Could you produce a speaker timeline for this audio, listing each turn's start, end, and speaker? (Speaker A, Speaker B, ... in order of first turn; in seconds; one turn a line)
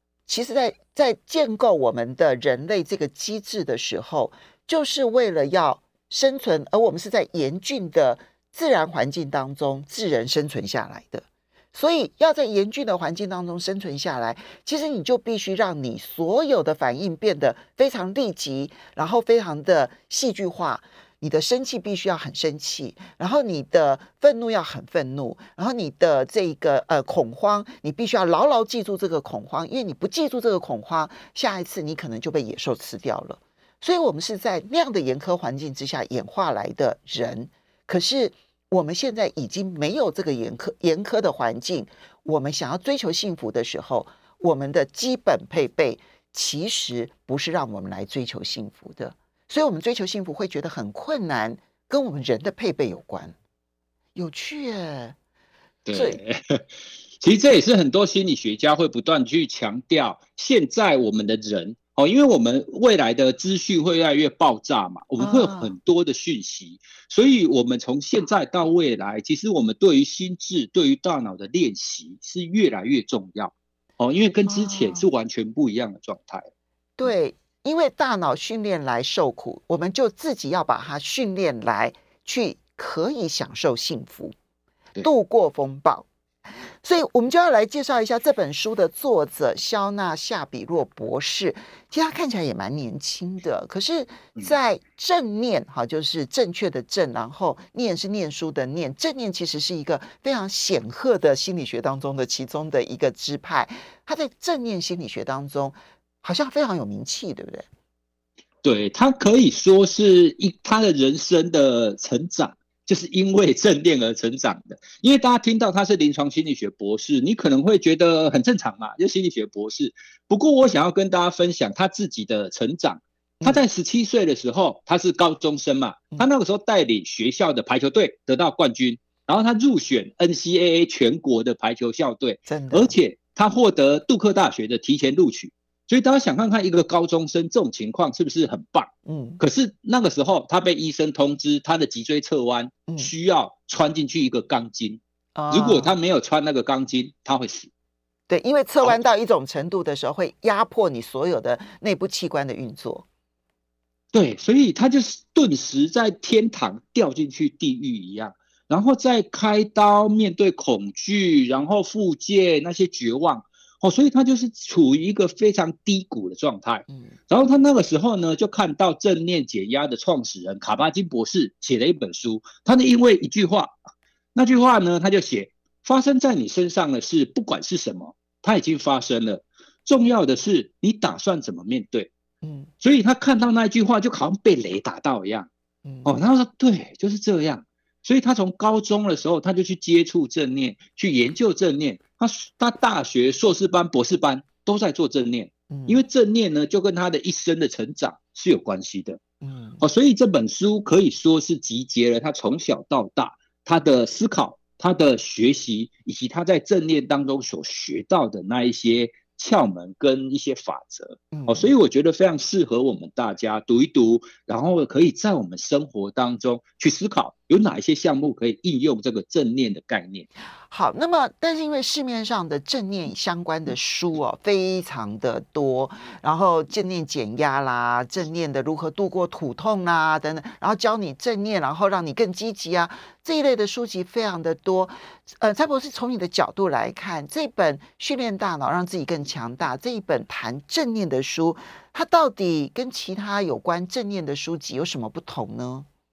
Speaker A: 0.2-53.4
Speaker A: 54.1-55.2
Speaker B: 55.9-56.6
Speaker A: 55.9-56.2
Speaker B: 57.2-76.5
Speaker A: 65.2-65.7
Speaker A: 74.5-75.0
Speaker A: 77.0-84.3
Speaker A: 85.0-86.1
Speaker A: 86.8-107.7
Speaker B: 108.6-147.7
Speaker A: 132.5-132.9
Speaker A: 139.0-139.4
Speaker A: 145.3-145.9
Speaker A: 148.3-153.0
Speaker B: 154.1-173.8
Speaker B: 174.3-182.1
Speaker A: 182.4-182.7
Speaker B: 182.8-185.5
Speaker A: 185.8-186.2
Speaker B: 186.0-199.2
Speaker A: 195.7-196.0
Speaker A: 199.4-199.8
Speaker B: 199.8-220.3
Speaker A: 211.3-211.7
Speaker A: 220.7-245.9